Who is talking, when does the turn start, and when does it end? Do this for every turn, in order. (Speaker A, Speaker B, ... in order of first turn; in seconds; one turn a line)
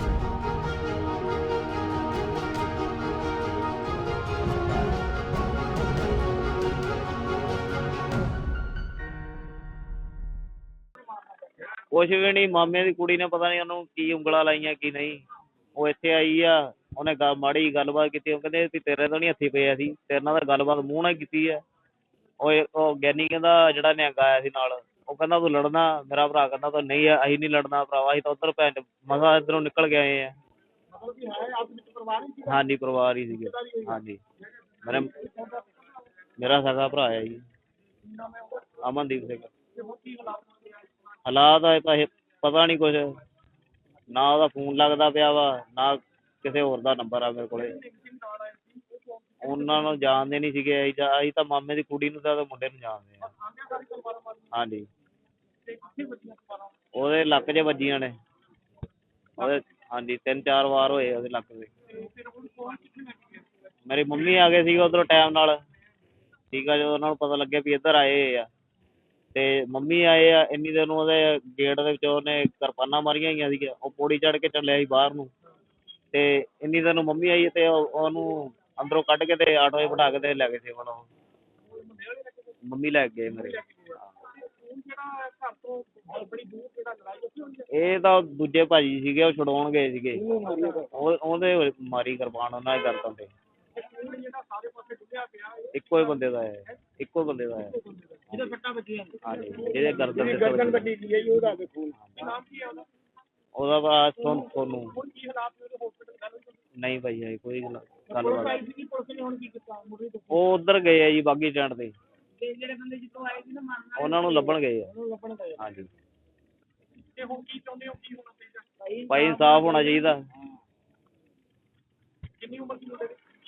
Speaker A: 11.9-15.2
Speaker A: 15.8-21.6
Speaker A: 22.4-30.3
Speaker B: 31.0-32.4
Speaker A: 32.4-34.2
Speaker A: 34.8-35.1
Speaker B: 35.3-35.6
Speaker A: 36.4-37.4
Speaker B: 38.1-38.5
Speaker A: 38.8-39.5
Speaker B: 39.8-40.8
Speaker A: 41.2-43.1
Speaker A: 44.1-47.8
Speaker B: 47.9-48.9
Speaker A: 49.4-53.3
Speaker B: 53.5-54.4
Speaker A: 54.5-54.9
Speaker B: 55.7-56.7
Speaker A: 56.9-58.1
Speaker A: 59.4-61.7
Speaker B: 62.1-63.4
Speaker A: 63.9-65.5
Speaker A: 66.5-68.5
Speaker A: 69.3-75.3
Speaker A: 76.1-81.0
Speaker A: 82.7-84.1
Speaker B: 84.4-87.7
Speaker A: 87.7-90.2
Speaker B: 90.3-90.9
Speaker A: 90.9-93.3
Speaker B: 93.8-95.7
Speaker A: 95.7-97.8
Speaker B: 97.9-102.9
Speaker A: 98.3-98.6
Speaker A: 99.2-100.9
Speaker A: 102.0-102.3
Speaker A: 103.5-105.0
Speaker B: 105.0-106.5
Speaker A: 106.8-108.7
Speaker B: 108.4-110.2
Speaker A: 110.3-111.9
Speaker B: 112.5-113.8
Speaker A: 113.9-114.9
Speaker B: 115.0-115.5
Speaker A: 115.6-115.9
Speaker B: 117.1-118.9
Speaker A: 119.1-120.2
Speaker B: 122.4-123.2